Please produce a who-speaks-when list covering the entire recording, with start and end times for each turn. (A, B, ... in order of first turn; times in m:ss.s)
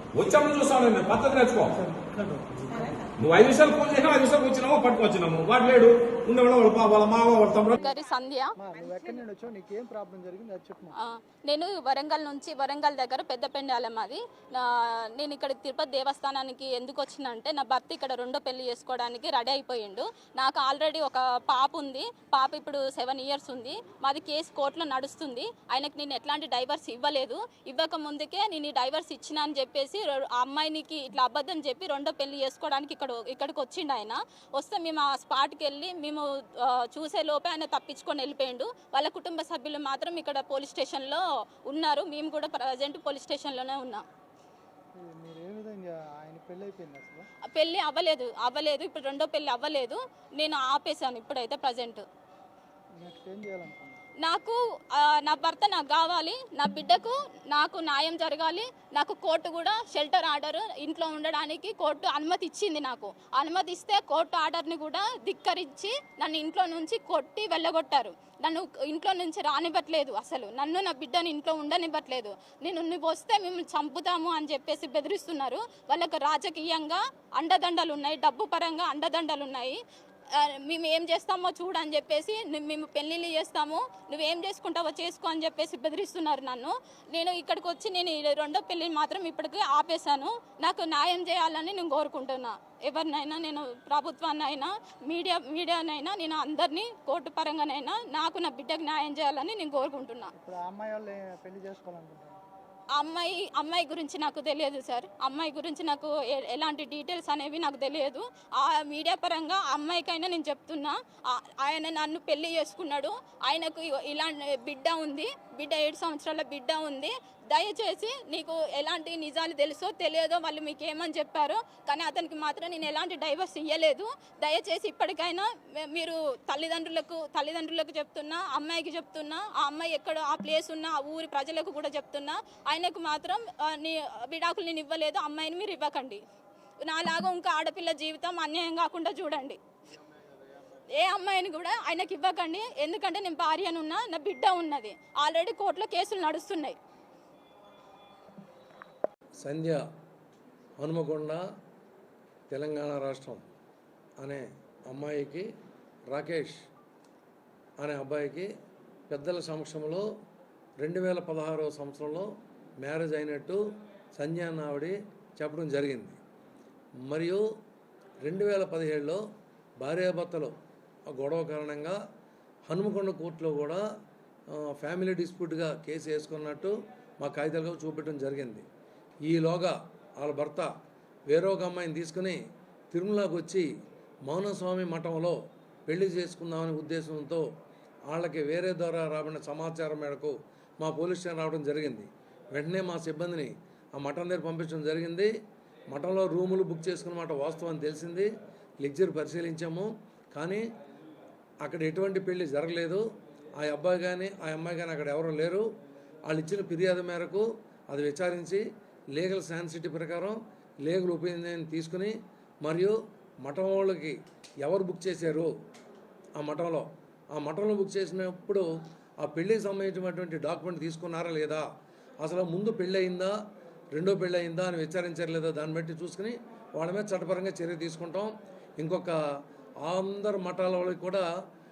0:00.1-0:01.8 A
0:01.8-0:02.4 B
0:03.2-0:07.8 A
0:07.8-0:08.5 C
0:08.6-0:10.9 B
0:11.0-0:44.0 C
0:44.9-0:47.3 B
0:47.5-0:52.0 C
0:52.9-0:54.0 B
0:54.2-1:19.8 C
1:20.3-1:40.3 C
1:40.4-1:42.4 B
1:43.0-2:16.2 C
2:16.8-2:19.6 C
2:21.0-2:26.8 C
2:29.4-2:29.8 D
2:30.8-2:31.4 D
2:32.5-2:33.4 D
2:34.2-2:35.5 D
2:36.1-2:36.7 D
2:37.8-2:38.5 D
2:39.1-2:40.0 D
2:40.8-2:42.3 D
2:42.8-2:43.6 D
2:44.2-2:46.2 D
2:47.1-2:47.4 D
2:48.2-2:49.2 D
2:49.8-2:50.6 D
2:51.1-2:52.0 D
2:52.7-2:53.8 D
2:54.5-2:58.6 D
2:59.3-3:00.7 D
3:01.3-3:02.4 D
3:02.9-3:03.7 D
3:04.3-3:07.4 D
3:08.1-3:15.3 D
3:15.9-3:18.3 D
3:18.8-3:20.6 D
3:21.6-3:23.0 D
3:23.6-3:25.6 D
3:26.3-3:35.5 D
3:36.4-3:38.6 D
3:39.2-3:41.6 D
3:42.2-3:43.4 D
3:43.9-3:49.2 D
3:49.8-3:51.2 D